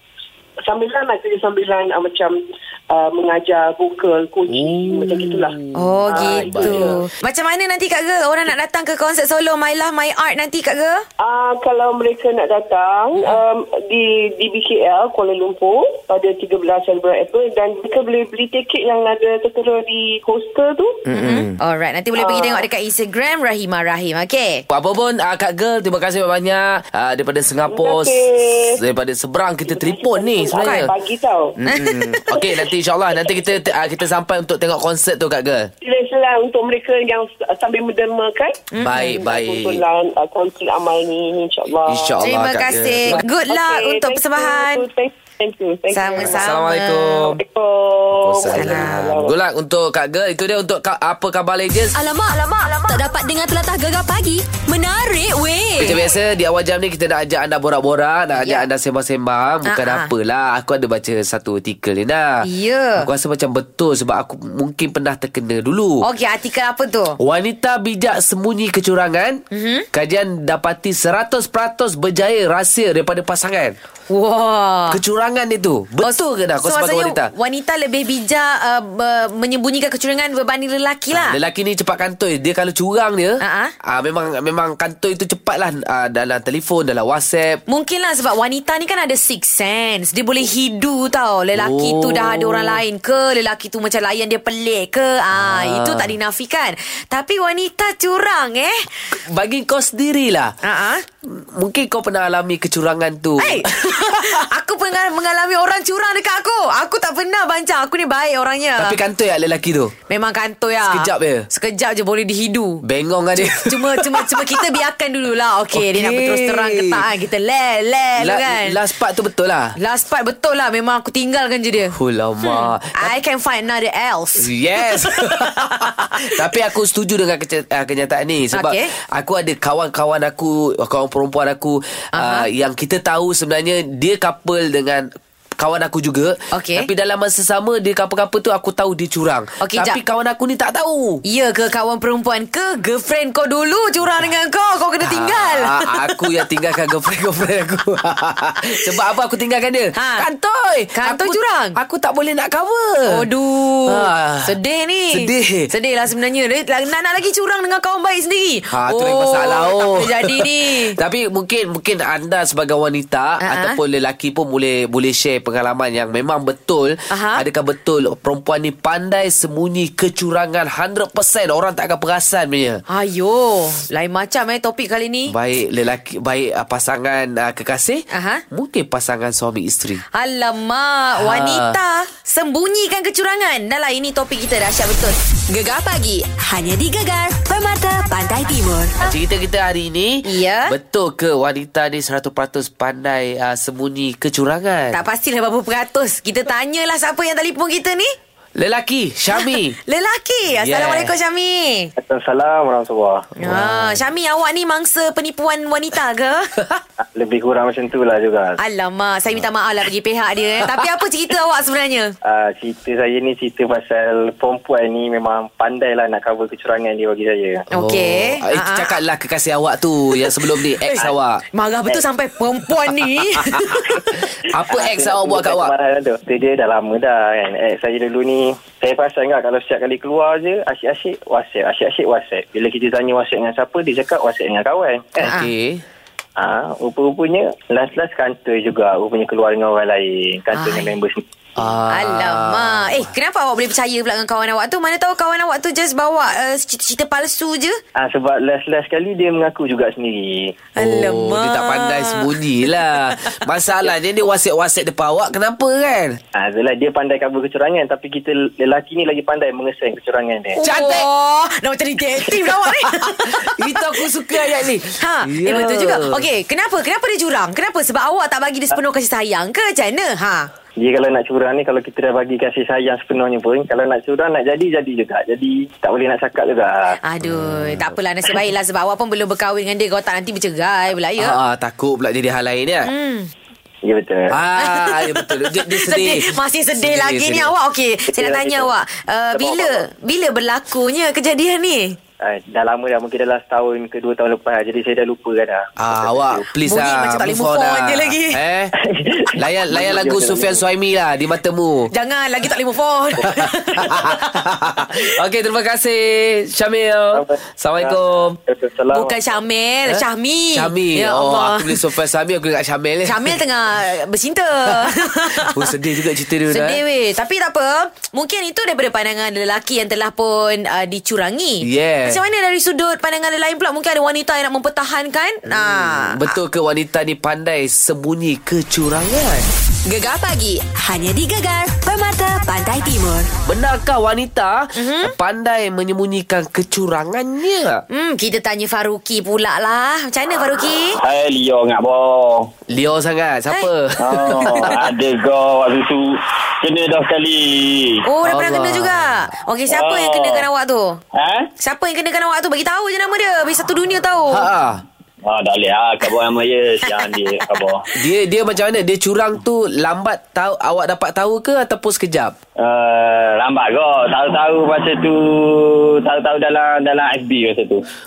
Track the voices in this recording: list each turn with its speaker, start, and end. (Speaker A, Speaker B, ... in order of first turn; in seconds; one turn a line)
Speaker A: 0.6-2.4
Speaker A: 2.9-5.5
Speaker B: 4.5-7.0
Speaker C: 5.7-11.1
Speaker A: 6.1-7.0
Speaker A: 11.2-21.0
Speaker B: 21.1-21.6
Speaker C: 21.1-24.6
Speaker A: 22.1-22.7
Speaker B: 24.7-28.2
Speaker A: 27.7-28.8
Speaker B: 28.7-30.9
Speaker A: 29.7-31.6
Speaker C: 30.6-30.9
Speaker C: 31.6-32.4
Speaker B: 31.6-35.7
Speaker A: 35.8-42.1
Speaker C: 38.7-39.2
Speaker B: 38.8-39.8
Speaker B: 41.9-43.2
Speaker C: 42.2-44.9
Speaker A: 43.3-46.7
Speaker C: 45.9-47.3
Speaker B: 46.2-47.4
Speaker A: 47.4-49.3
Speaker B: 48.2-52.0
Speaker C: 48.5-49.1
Speaker D: 51.9-55.9
Speaker B: 55.8-62.5
Speaker C: 58.4-58.7
Speaker C: 59.7-60.1
Speaker C: 62.4-63.1
Speaker B: 63.0-66.0
Speaker C: 66.0-67.2
Speaker B: 67.2-69.4
Speaker C: 69.5-69.9
Speaker B: 69.9-73.8
Speaker C: 74.1-75.0
Speaker B: 74.9-77.3
Speaker C: 76.0-81.4
Speaker B: 81.1-87.6
Speaker C: 83.4-83.7
Speaker C: 87.7-98.9
Speaker B: 91.5-92.8
Speaker B: 95.3-96.1
Speaker B: 99.1-100.5
Speaker C: 100.6-101.0
Speaker B: 101.2-104.3
Speaker C: 103.4-109.0
Speaker B: 108.8-109.9
Speaker C: 110.1-112.8
Speaker B: 110.8-111.5
Speaker B: 112.8-114.7
Speaker C: 113.4-118.8
Speaker B: 115.7-117.1
Speaker B: 118.2-119.8
Speaker C: 119.8-126.4
Speaker B: 121.8-123.1
Speaker B: 124.4-141.2
Speaker C: 128.5-128.9
Speaker C: 132.1-132.5
Speaker C: 136.5-136.9
Speaker C: 139.6-140.0
Speaker C: 141.3-146.2
Speaker B: 145.1-153.3
Speaker C: 149.9-150.2
Speaker C: 151.0-151.8
Speaker C: 153.1-161.0
Speaker B: 153.9-154.6
Speaker B: 155.1-155.7
Speaker B: 158.7-172.8
Speaker C: 163.4-163.8
Speaker C: 167.1-167.4
Speaker C: 172.9-175.3
Speaker B: 175.3-180.0
Speaker C: 178.1-178.4
Speaker C: 180.1-185.2
Speaker B: 181.2-181.8
Speaker D: 185.5-188.9
Speaker B: 189.0-195.0
Speaker C: 190.2-190.7
Speaker C: 194.9-198.1
Speaker B: 198.6-199.8
Speaker C: 199.4-201.9
Speaker B: 200.6-201.1
Speaker E: 202.0-203.3
Speaker C: 203.4-206.6
Speaker B: 203.4-204.0
Speaker E: 207.0-208.6
Speaker C: 208.6-212.1
Speaker E: 212.2-217.7
Speaker C: 217.7-219.0
Speaker B: 217.7-221.4
Speaker C: 221.5-224.2
Speaker B: 224.5-225.7
Speaker E: 224.7-235.3
Speaker B: 235.2-235.8
Speaker C: 235.2-235.5
Speaker E: 236.4-241.2
Speaker C: 240.5-240.9
Speaker B: 241.6-243.1
Speaker C: 241.9-247.8
Speaker E: 247.9-250.6
Speaker C: 250.8-253.0
Speaker B: 250.8-256.2
Speaker E: 256.4-260.6
Speaker C: 260.6-270.5
Speaker B: 260.6-261.1
Speaker B: 262.2-266.3
Speaker E: 270.8-277.0
Speaker C: 277.1-281.4
Speaker B: 277.2-277.9
Speaker B: 281.2-282.9
Speaker C: 282.9-283.3
Speaker E: 283.8-284.4
Speaker B: 284.3-287.5
Speaker C: 284.6-292.0
Speaker E: 288.1-288.7
Speaker E: 289.3-289.9
Speaker E: 292.2-296.4
Speaker B: 295.8-298.7
Speaker C: 296.6-298.4
Speaker E: 298.8-300.6
Speaker B: 299.4-301.9
Speaker C: 301.9-304.2
Speaker B: 303.9-308.4
Speaker E: 307.1-309.2
Speaker C: 308.9-311.8
Speaker B: 309.9-313.4
Speaker C: 313.1-315.7
Speaker B: 314.8-316.8
Speaker C: 316.5-326.4
Speaker B: 321.6-322.2
Speaker B: 325.5-329.5
Speaker D: 329.9-333.3
Speaker B: 333.4-337.8
Speaker C: 334.8-335.1
Speaker C: 337.9-341.0
Speaker F: 341.0-342.5
Speaker B: 342.7-344.8
Speaker F: 344.0-348.0
Speaker C: 344.4-344.7
Speaker C: 348.0-351.0
Speaker B: 348.2-349.3
Speaker F: 349.7-350.5
Speaker F: 351.1-351.5
Speaker C: 351.6-354.5
Speaker B: 354.3-354.8
Speaker F: 355.2-357.8
Speaker B: 357.9-362.4
Speaker F: 362.6-367.8